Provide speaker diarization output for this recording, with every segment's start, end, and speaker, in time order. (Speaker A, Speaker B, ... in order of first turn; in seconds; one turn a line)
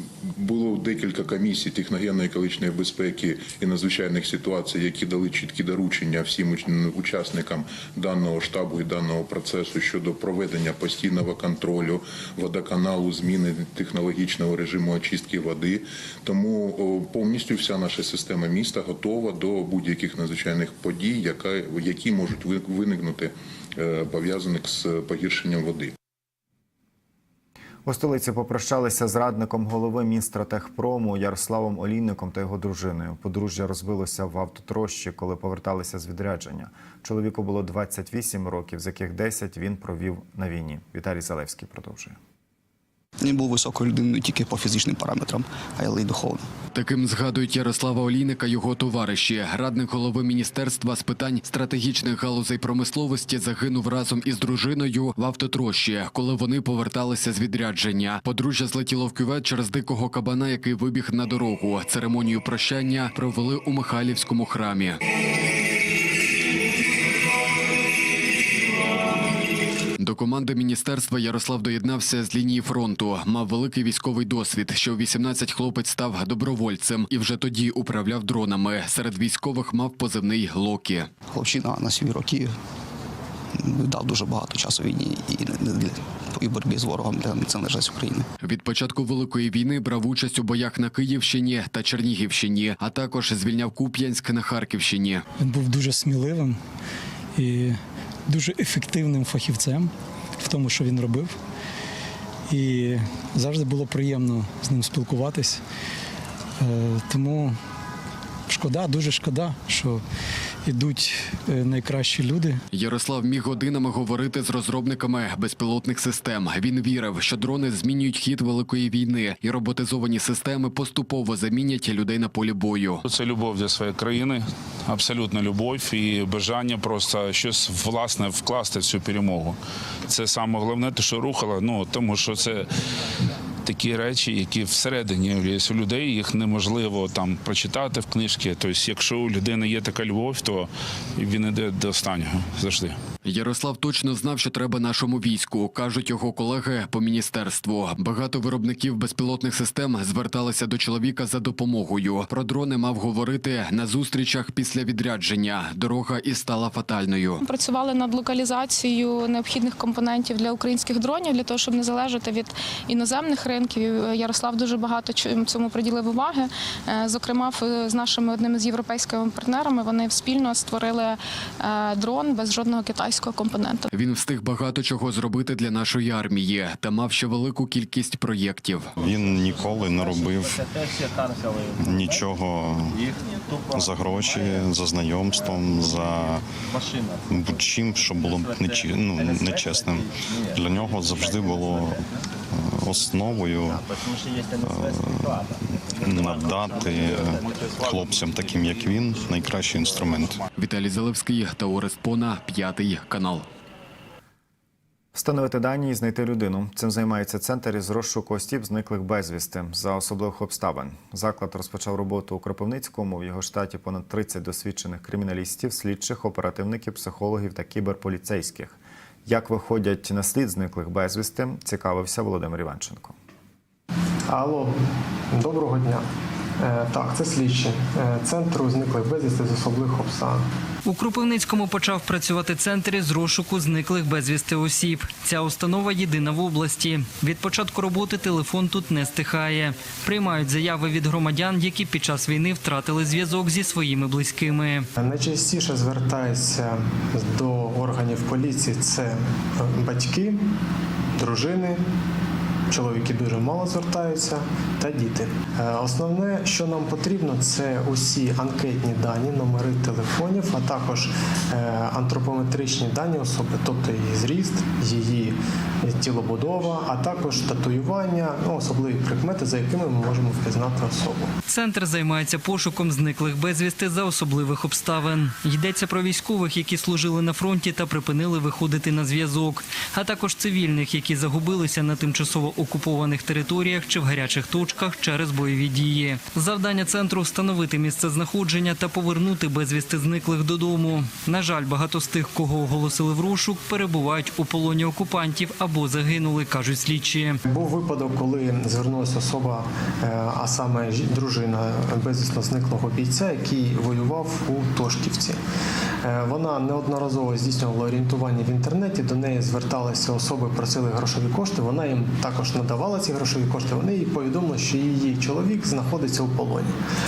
Speaker A: 0.2-25.9
Speaker B: 27.9-42.2
Speaker C: 43.2-46.5
Speaker D: 46.7-65.0
Speaker D: 70.0-81.1
Speaker C: 81.3-82.5
Speaker C: 83.6-88.3
Speaker D: 88.4-95.2
Speaker E: 95.4-96.6
Speaker E: 97.4-101.4
Speaker E: 102.5-105.6
Speaker E: 106.6-107.6
Speaker E: 108.5-110.0
Speaker E: 110.7-112.6
Speaker D: 112.7-123.0
Speaker F: 123.0-132.7
Speaker F: 133.7-143.0
Speaker D: 143.2-157.4
Speaker G: 157.4-173.9
Speaker D: 173.9-178.9
Speaker H: 179.0-180.7
Speaker H: 181.8-183.0
Speaker H: 183.7-186.4
Speaker H: 187.3-193.9
Speaker H: 194.6-200.4
Speaker D: 200.6-203.5
Speaker B: 205.1-223.2
Speaker I: 224.3-224.8
Speaker I: 225.3-226.1
Speaker I: 226.6-230.5
Speaker J: 230.9-244.9
Speaker I: 245.0-250.5
Speaker I: 251.2-251.8
Speaker I: 252.7-271.3
Speaker J: 271.5-297.4
Speaker I: 297.4-305.4
Speaker I: 306.0-316.8